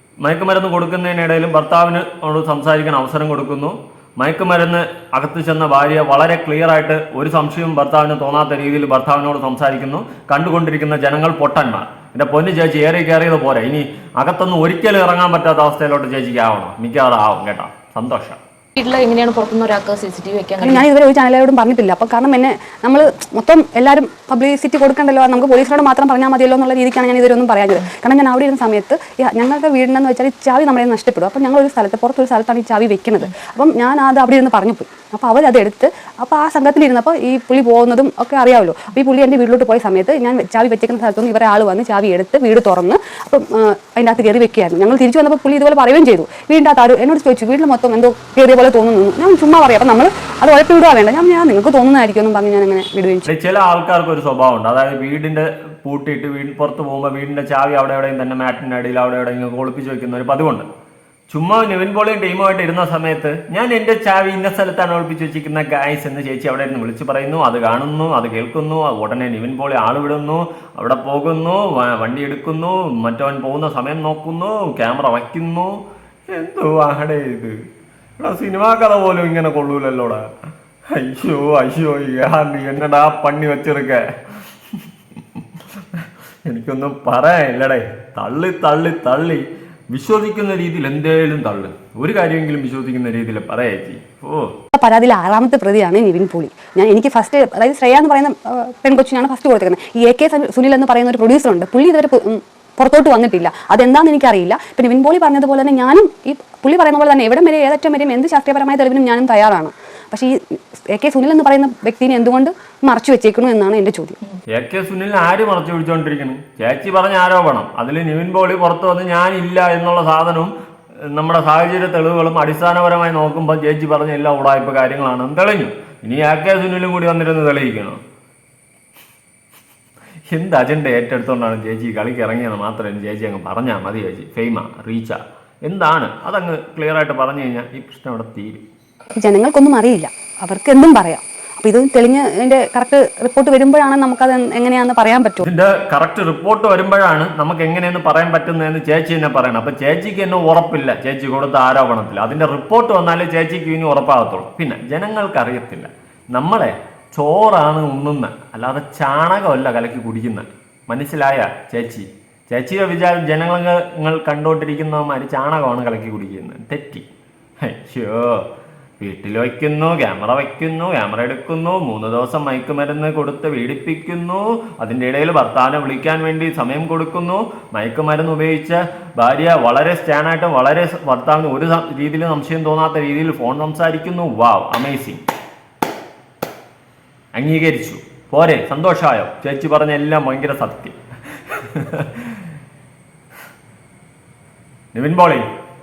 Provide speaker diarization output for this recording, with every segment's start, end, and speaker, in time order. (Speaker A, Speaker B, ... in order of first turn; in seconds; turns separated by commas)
Speaker A: 0.2-18.4, Speaker B: 18.8-20.9, Speaker C: 20.6-53.3, Speaker A: 53.3-60.7, Speaker A: 61.3-77.5, Speaker A: 78.2-80.2, Speaker A: 80.9-84.8, Speaker A: 85.9-94.5, Speaker C: 94.7-110.3, Speaker C: 110.9-114.2, Speaker A: 114.5-120.5, Speaker A: 121.1-128.0, Speaker A: 130.3-138.6, Speaker C: 139.2-145.5, Speaker A: 145.4-167.1, Speaker A: 167.6-168.4, Speaker A: 169.0-185.2, Speaker A: 187.3-192.4, Speaker A: 194.9-195.4